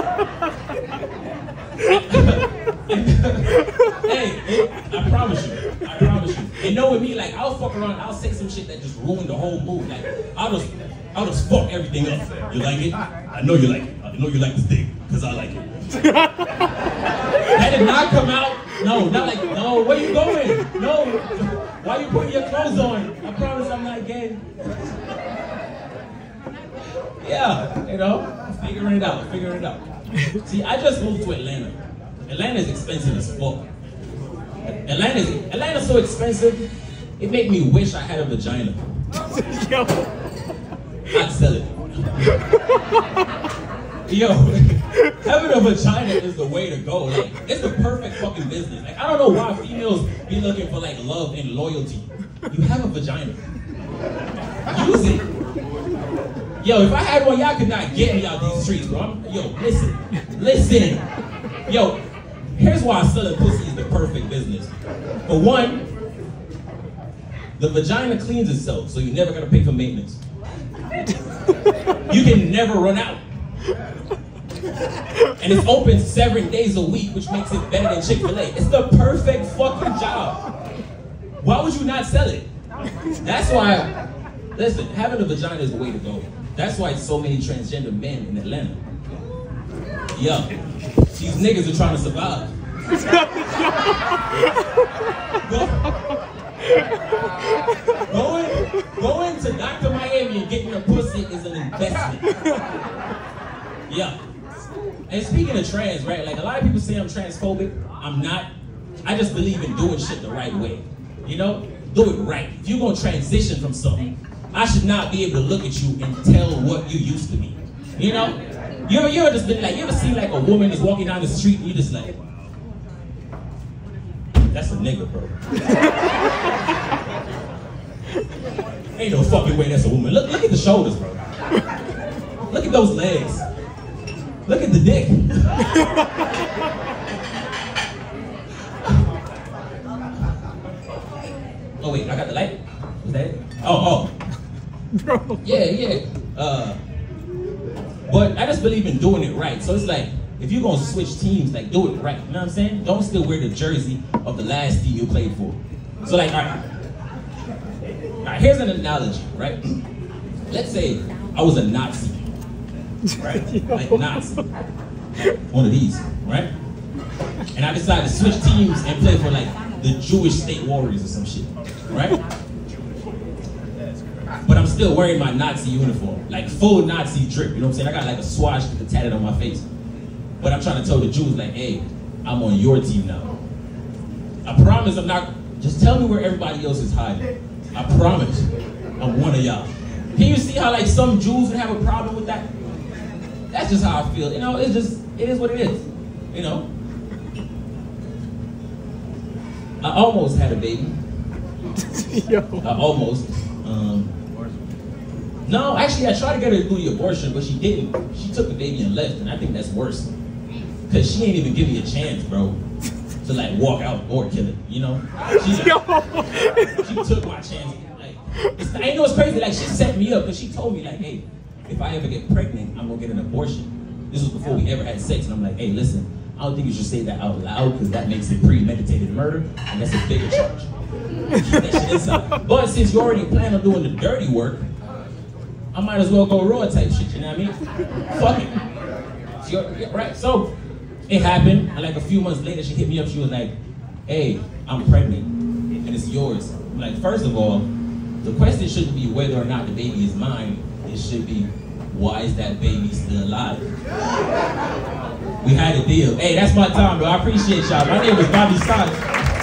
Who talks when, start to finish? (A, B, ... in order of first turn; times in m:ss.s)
0:01.8-0:15.7 A
0:17.4-0:24.4 A
0:27.2-0:33.7 A
0:34.6-0:38.8 A
0:39.3-0:40.1 B
0:41.1-0:42.4 A
0:42.7-0:43.0 B
0:44.0-0:53.4 A
0:54.6-0:55.3 A
0:56.6-1:01.0 A
1:01.6-1:02.0 A
1:02.5-1:04.7 A
1:05.2-1:05.8 A
1:07.6-1:10.2 A
1:12.1-1:13.2 A
1:15.4-1:20.4 A
1:21.4-1:22.5 A
1:23.2-1:23.9 A
1:24.5-1:28.8 A
1:30.1-1:32.5 A
1:32.9-1:34.6 B
1:35.4-1:35.9 A
1:37.9-1:42.4 A
1:43.9-1:44.2 A
1:45.1-1:48.5 A
1:49.0-2:02.1 A
2:04.5-2:05.3 A
2:09.0-2:11.2 A
2:12.5-2:13.4 A
2:14.4-2:15.8 A
2:21.8-2:24.1 A
2:25.0-2:25.4 B
2:25.4-2:26.8 A
2:28.1-2:36.6 A
2:38.2-2:39.6 A
2:40.5-2:42.3 A
2:43.1-2:44.4 A
2:45.3-2:46.5 A
2:47.5-2:52.2 A
2:54.4-2:59.6 A
3:00.4-3:03.4 A
3:04.4-3:08.5 A
3:09.0-3:12.5 A
3:13.5-3:16.7 A
3:19.8-3:21.0 A
3:21.8-3:22.6 B
3:22.6-3:24.1 A
3:25.4-3:30.1 A
3:30.9-3:32.6 A
3:33.2-3:50.7 A
3:35.6-3:36.8 B
3:51.3-3:54.6 A
3:55.7-3:57.5 A
3:58.1-3:58.5 A
3:59.4-4:00.5 A
4:01.1-4:03.5 A
4:04.1-4:05.3 A
4:05.8-4:07.7 A
4:08.2-4:13.7 A
4:15.4-4:19.0 A